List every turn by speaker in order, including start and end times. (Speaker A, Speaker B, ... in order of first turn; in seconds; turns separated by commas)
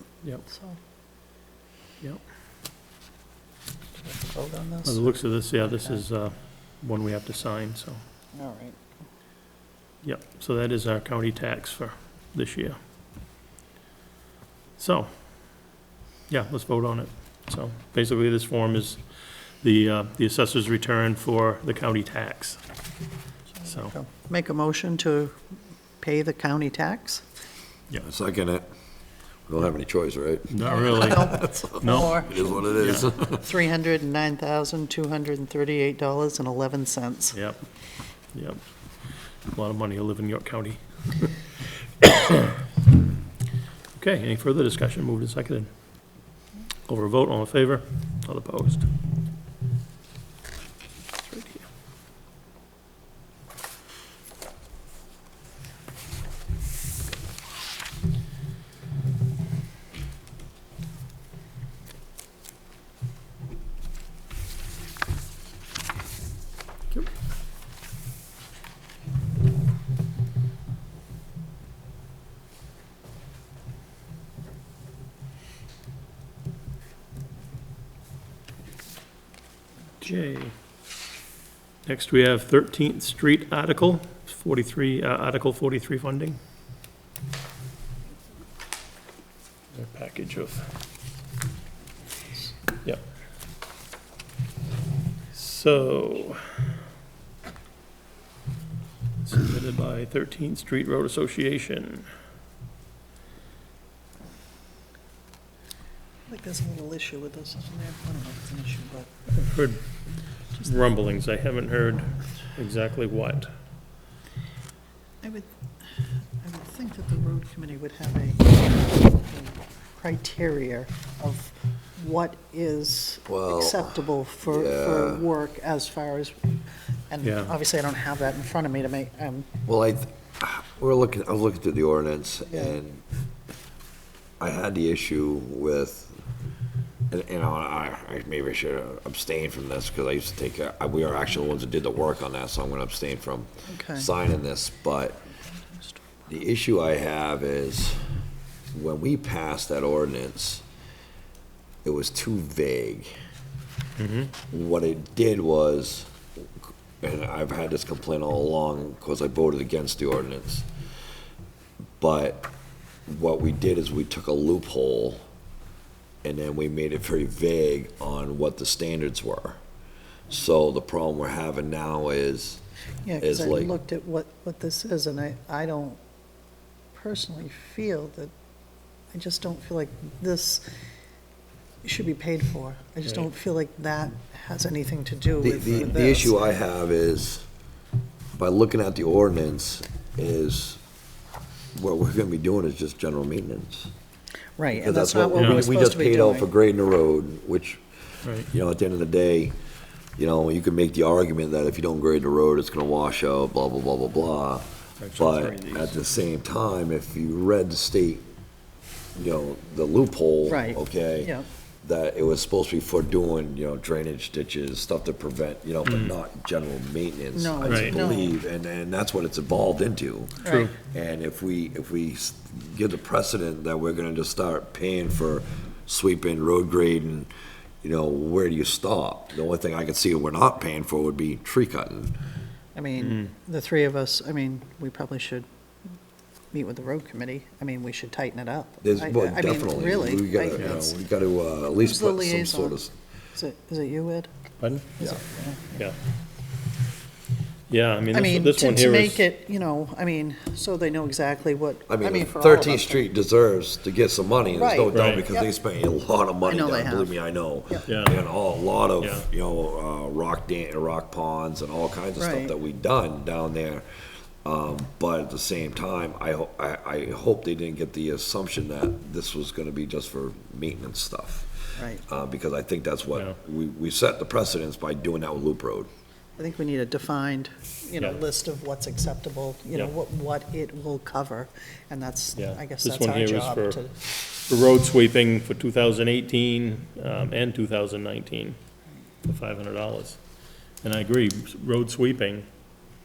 Speaker A: 0.5-0.8, Speaker A: 4.0-6.0, Speaker B: 4.8-8.0, Speaker A: 8.3-8.8, Speaker B: 10.0-12.8, Speaker B: 14.8-15.1, Speaker B: 16.3-22.6, Speaker A: 23.6-25.3, Speaker B: 23.6-23.9, Speaker A: 26.0-27.2, Speaker C: 28.0-28.7, Speaker C: 29.5-33.5, Speaker B: 30.5-33.1, Speaker A: 30.7-37.4, Speaker B: 37.3-37.7, Speaker B: 38.3-38.6, Speaker B: 39.5-41.4, Speaker B: 42.0-42.6, Speaker B: 43.9-45.7, Speaker B: 46.9-48.9, Speaker B: 51.3-51.7, Speaker B: 80.0-80.5, Speaker B: 81.9-86.4, Speaker B: 89.7-90.7, Speaker B: 95.3-96.6, Speaker B: 99.2-102.1, Speaker A: 106.3-109.1, Speaker B: 109.3-109.9, Speaker B: 110.6-113.5, Speaker A: 115.2-126.6, Speaker C: 123.3-125.3, Speaker A: 127.1-129.6, Speaker B: 127.2-127.5, Speaker C: 129.7-133.0, Speaker C: 134.4-136.2, Speaker C: 137.1-145.3, Speaker A: 143.7-144.1, Speaker A: 145.6-146.3, Speaker C: 146.3-148.0, Speaker C: 148.7-150.6, Speaker C: 151.8-153.1, Speaker B: 154.0-154.3, Speaker C: 154.5-160.7, Speaker C: 162.0-162.5, Speaker C: 163.1-165.2, Speaker C: 166.2-169.6, Speaker C: 170.3-172.6, Speaker A: 173.0-176.0, Speaker C: 173.2-173.8, Speaker A: 176.9-178.3, Speaker A: 179.1-180.7, Speaker A: 181.8-186.5, Speaker C: 185.4-187.5, Speaker C: 188.3-190.8, Speaker C: 191.8-193.9, Speaker A: 194.6-196.5, Speaker C: 194.7-199.6, Speaker B: 195.3-195.7, Speaker B: 198.2-198.5, Speaker C: 200.2-208.3, Speaker B: 205.0-206.0, Speaker C: 209.2-227.3, Speaker A: 210.5-211.5, Speaker B: 215.8-216.2, Speaker A: 217.3-218.4, Speaker B: 217.7-218.0, Speaker A: 220.4-220.7, Speaker B: 220.4-220.8, Speaker C: 227.8-232.1, Speaker A: 232.8-235.5, Speaker B: 233.0-233.3, Speaker A: 236.5-241.0, Speaker C: 238.8-242.9, Speaker B: 240.6-240.8, Speaker A: 241.8-242.8, Speaker A: 243.3-244.3, Speaker B: 244.6-245.2, Speaker A: 245.0-245.8, Speaker B: 247.7-249.2, Speaker A: 248.1-253.1, Speaker C: 251.9-263.9, Speaker A: 254.5-255.5, Speaker B: 254.9-255.3, Speaker A: 256.4-257.9, Speaker B: 257.9-258.2, Speaker B: 259.0-259.3, Speaker A: 262.2-262.6, Speaker C: 264.4-275.9, Speaker A: 271.8-272.0, Speaker A: 276.4-283.9, Speaker B: 282.4-283.8, Speaker B: 284.5-288.6, Speaker B: 289.2-290.2, Speaker B: 290.8-292.5